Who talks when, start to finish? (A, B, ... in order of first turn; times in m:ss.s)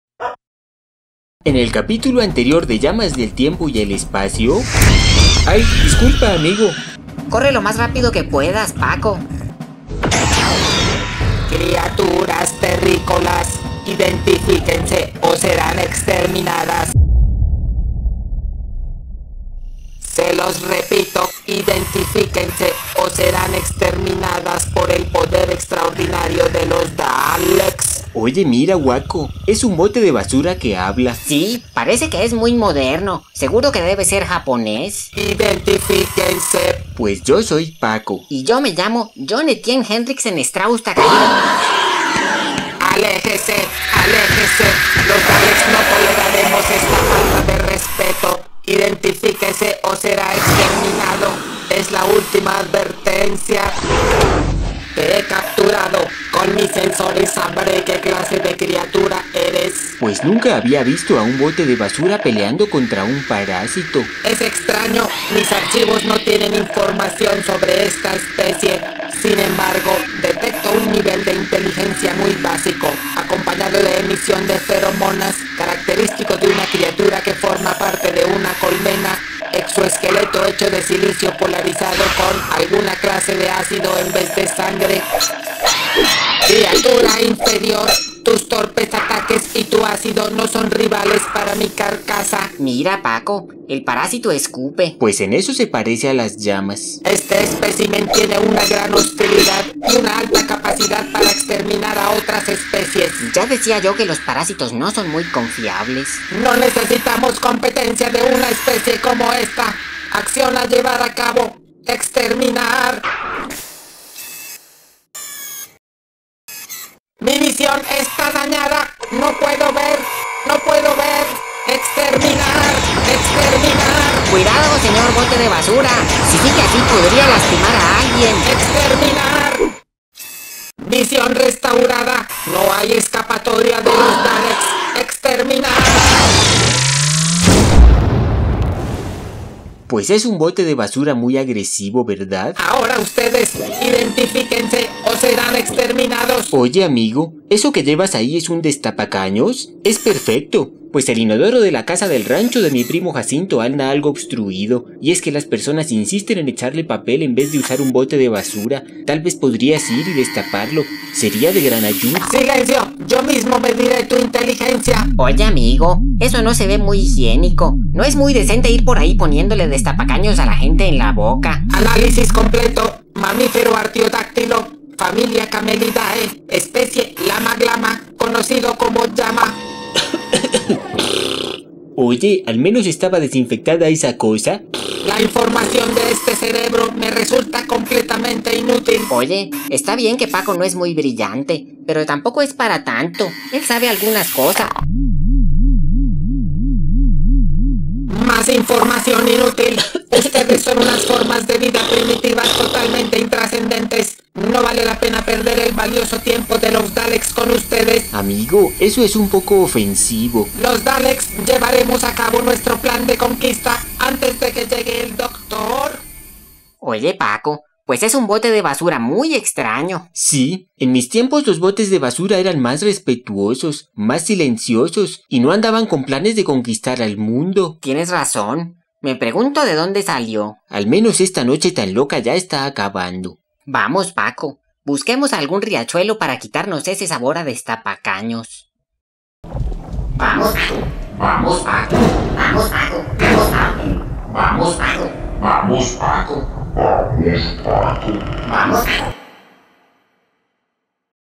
0:01.4-0:04.7 A
0:05.4-0:06.8 A
0:07.3-0:09.2 B
0:11.5-0:16.9 C
0:20.0-0:28.0 C
0:28.1-0:31.2 A
0:31.2-0:35.1 B
0:35.1-0:36.8 C
0:37.0-0:38.2 A
0:38.3-0:41.4 B
0:42.8-0:53.7 C
0:54.9-0:59.9 C
1:00.0-1:04.1 A
1:04.2-1:25.1 C
1:26.4-1:32.5 C
1:32.6-1:35.0 B
1:35.0-1:37.0 A
1:37.0-1:43.3 C
1:43.2-1:46.2 B
1:46.3-1:53.0 C
1:57.2-2:04.3 C
2:04.3-2:08.5 B
2:08.4-2:09.6 C
2:10.8-2:16.3 C
2:19.9-2:22.6 A
2:22.6-2:26.5 C
2:26.5-2:42.3 A
2:42.2-2:45.1 C
2:45.2-2:51.6 B
2:51.7-2:59.6 C
3:00.3-3:00.7 A
3:01.9-3:04.6 A
3:05.0-3:09.1 C
3:09.1-3:14.7 B
3:18.1-3:28.1 C
3:28.1-3:30.5 A
3:30.5-3:36.0 C
3:36.8-3:40.1 B
3:40.1-3:47.8 A
3:47.8-3:50.6 B
3:50.7-3:53.4 A
3:53.7-3:58.6 B
4:00.1-4:06.4 B
4:08.4-4:08.9 B